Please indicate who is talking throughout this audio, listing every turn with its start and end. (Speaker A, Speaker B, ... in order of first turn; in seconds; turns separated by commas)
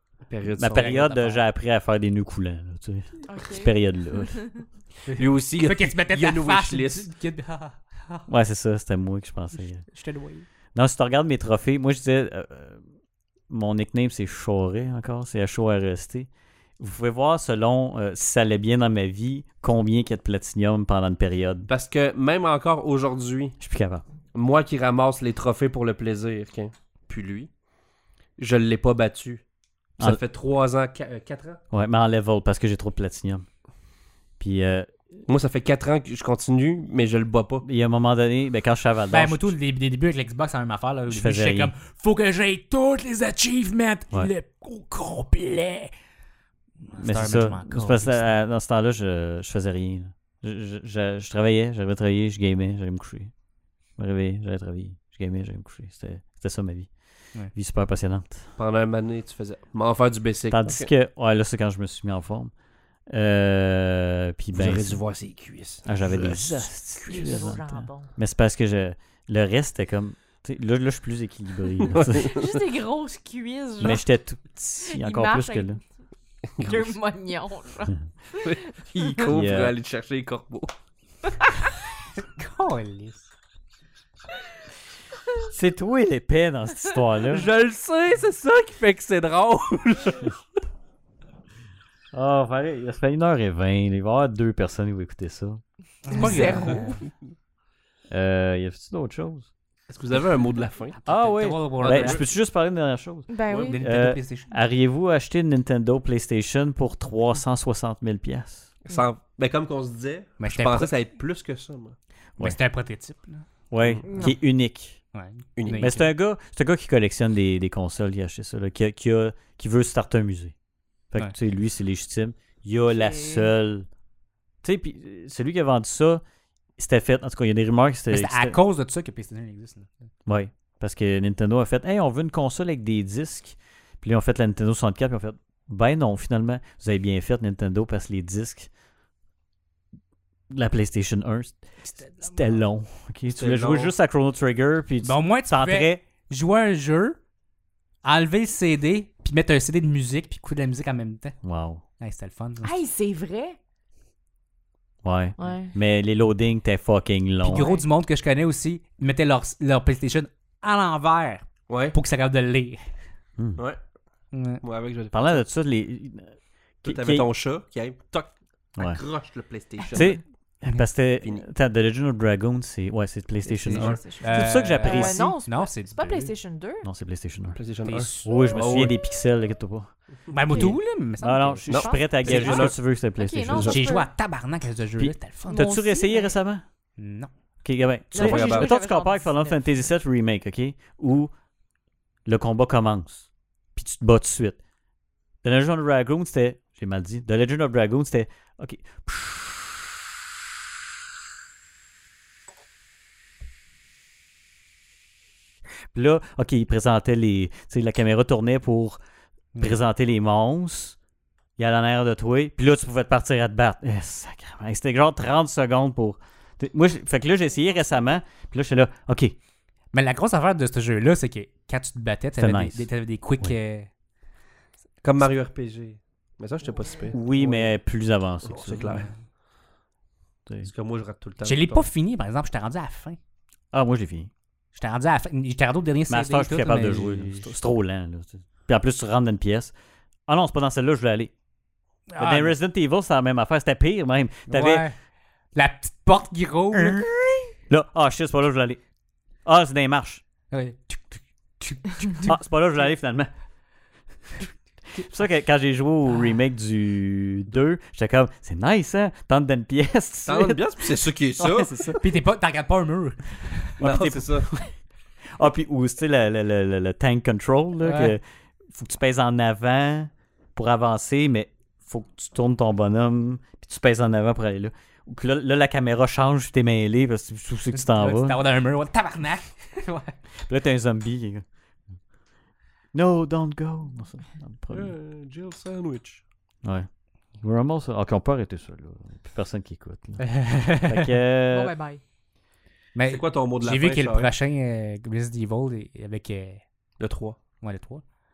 Speaker A: 0.3-1.1, Speaker B: 0.6-4.5, Speaker C: 0.6-1.4, Speaker D: 3.3-4.5, Speaker C: 5.1-8.3, Speaker A: 5.2-7.1, Speaker B: 8.3-9.8, Speaker C: 9.9-10.4, Speaker B: 10.8-12.8, Speaker B: 13.5-21.7, Speaker A: 21.7-23.6, Speaker B: 23.6-24.0, Speaker A: 24.3-27.5, Speaker A: 28.4-29.4, Speaker A: 30.0-31.6, Speaker B: 31.7-33.5, Speaker B: 34.4-34.9, Speaker A: 35.3-37.7, Speaker B: 37.6-39.5, Speaker C: 39.1-45.9, Speaker B: 41.1-41.7, Speaker C: 46.8-48.3, Speaker B: 47.0-53.3, Speaker B: 54.0-58.5, Speaker A: 58.6-60.9, Speaker B: 60.5-62.5, Speaker B: 63.1-65.0, Speaker A: 64.5-67.3, Speaker B: 65.8-72.4, Speaker D: 67.1-68.1, Speaker A: 71.8-72.5, Speaker D: 72.2-74.1, Speaker B: 73.8-75.8, Speaker D: 74.8-75.8, Speaker D: 76.6-79.1, Speaker A: 78.4-80.7, Speaker B: 79.3-79.7, Speaker C: 82.2-83.3, Speaker B: 85.5-87.5, Speaker A: 87.3-90.4, Speaker B: 92.1-95.6, Speaker C: 96.0-97.0, Speaker D: 96.1-97.0, Speaker B: 98.1-99.5, Speaker A: 99.9-101.0, Speaker C: 101.0-102.2, Speaker B: 101.1-108.7, Speaker A: 101.8-102.2, Speaker D: 103.3-103.8, Speaker A: 103.5-103.7, Speaker C: 103.6-104.5, Speaker A: 108.9-112.0, Speaker C: 110.4-110.9, Speaker C: 112.4-113.5, Speaker B: 113.7-115.0, Speaker D: 114.0-114.4, Speaker C: 115.1-116.1, Speaker A: 115.6-116.0, Speaker B: 115.7-120.5, Speaker B: 121.1-123.9, Speaker D: 122.9-123.5, Speaker B: 124.6-126.2, Speaker B: 126.8-128.6, Speaker C: 128.1-129.9, Speaker B: 130.3-138.7, Speaker B: 140.5-146.0, Speaker A: 143.4-143.9, Speaker C: 145.0-147.2, Speaker C: 148.0-151.4, Speaker B: 151.4-151.8, Speaker C: 152.0-152.8, Speaker D: 152.6-153.6, Speaker B: 155.0-157.7, Speaker D: 155.4-155.7, Speaker C: 157.4-162.9, Speaker D: 157.5-157.8, Speaker A: 161.7-161.9, Speaker C: 164.3-164.6, Speaker A: 164.6-165.4, Speaker B: 165.1-167.3, Speaker A: 166.8-170.2, Speaker B: 169.9-175.4, Speaker D: 173.4-176.9, Speaker A: 173.7-174.0, Speaker C: 174.2-176.3, Speaker B: 176.8-177.6, Speaker A: 177.6-178.9, Speaker C: 177.8-178.3, Speaker B: 178.2-179.9, Speaker C: 180.3-182.6, Speaker D: 180.5-180.8, Speaker B: 180.6-183.8, Speaker A: 181.7-182.8, Speaker D: 181.7-184.1, Speaker A: 183.5-183.8, Speaker C: 183.7-185.6, Speaker B: 185.0-186.6, Speaker D: 185.5-186.3, Speaker C: 187.0-187.3, Speaker B: 187.6-191.3, Speaker D: 188.1-189.6, Speaker A: 188.2-188.7, Speaker B: 192.3-194.6, Speaker B: 195.4-200.2, Speaker B: 205.9-209.0, Speaker B: 209.6-211.0, Speaker B: 211.6-219.4, Speaker C: 219.9-223.9, Speaker B: 222.4-222.9, Speaker A: 225.0-227.7, Speaker B: 227.1-229.1, Speaker A: 228.4-229.1, Speaker A: 230.6-231.9, Speaker C: 231.4-233.2, Speaker B: 233.7-234.3, Speaker C: 234.7-237.5, Speaker B: 236.1-239.7, Speaker B: 240.3-241.3, Speaker C: 242.1-242.6, Speaker B: 242.2-244.9, Speaker C: 244.5-244.9, Speaker C: 245.6-247.1, Speaker B: 246.7-248.8, Speaker B: 249.4-250.2, Speaker C: 250.5-252.3, Speaker B: 252.1-253.3, Speaker B: 254.9-262.1, Speaker A: 260.3-261.7, Speaker C: 262.0-263.8, Speaker B: 263.8-264.7, Speaker A: 263.8-264.5, Speaker B: 265.3-278.4, Speaker C: 267.8-268.2, Speaker C: 277.7-280.2, Speaker B: 280.4-281.4, Speaker B: 282.9-284.9, Speaker A: 284.7-286.2, Speaker B: 286.6-286.9, Speaker B: 287.4-291.7, Speaker C: 290.2-291.1, Speaker D: 291.5-292.0, Speaker C: 292.9-296.6, Speaker A: 293.1-294.3, Speaker A: 297.0-297.4, Speaker C: 297.6-298.0